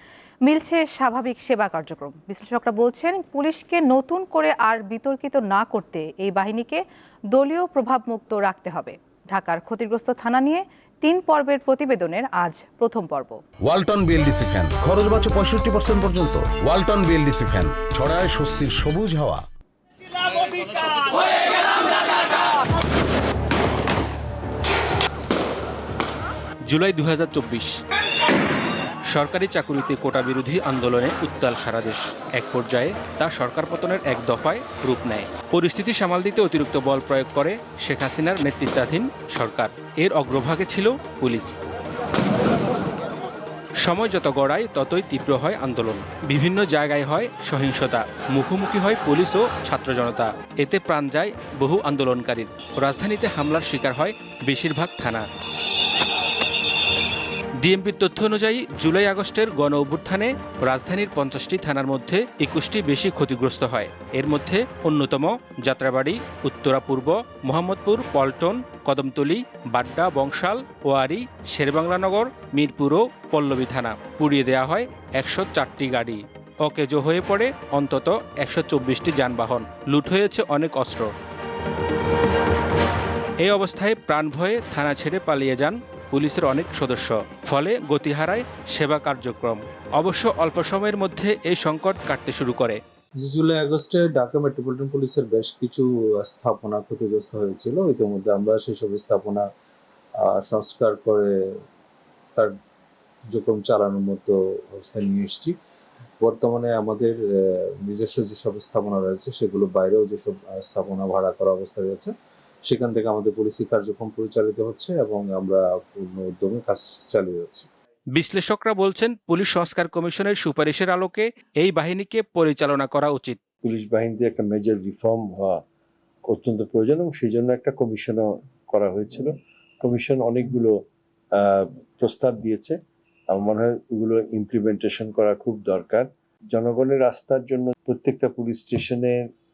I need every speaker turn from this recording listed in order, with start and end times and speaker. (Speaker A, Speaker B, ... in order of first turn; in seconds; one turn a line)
Speaker A: 0.4-13.4
Speaker B: 13.6-19.4
Speaker C: 26.7-27.7
Speaker C: 29.1-41.6
Speaker C: 43.8-55.2
Speaker C: 57.6-81.1
Speaker C: 83.4-92.8
Speaker D: 93.2-99.5
Speaker D: 100.2-101.3
Speaker D: 103.3-105.5
Speaker D: 106.2-107.2
Speaker D: 107.8-112.1
Speaker D: 112.6-117.7
Speaker C: 118.2-123.4
Speaker E: 123.6-125.6
Speaker E: 126.3-130.7
Speaker E: 131.4-132.8
Speaker E: 133.3-139.2